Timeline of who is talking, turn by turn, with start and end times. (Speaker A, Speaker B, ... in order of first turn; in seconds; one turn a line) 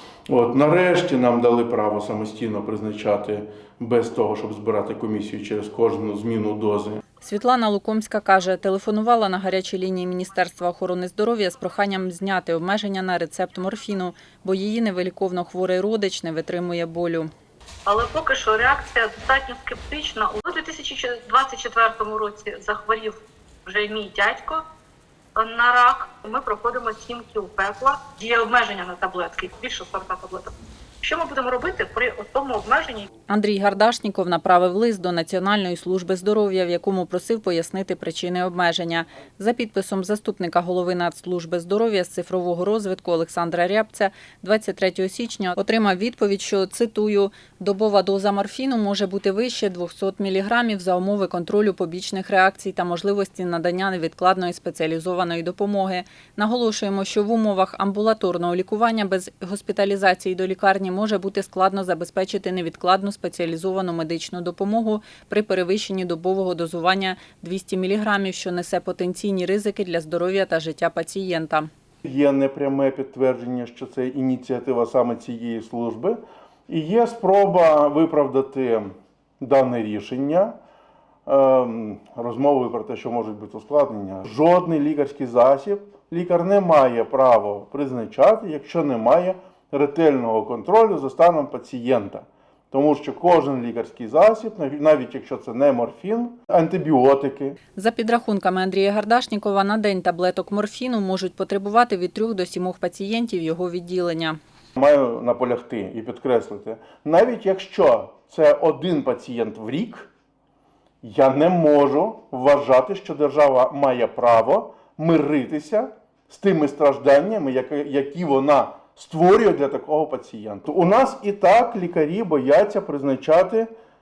Speaker A: 0.3-7.0
Speaker B: 7.2-17.3
Speaker C: 17.9-24.6
Speaker C: 25.3-33.1
Speaker B: 33.3-71.7
Speaker A: 72.0-80.5
Speaker A: 81.2-97.6
Speaker B: 97.8-104.4
Speaker A: 104.8-110.1
Speaker A: 111.0-123.7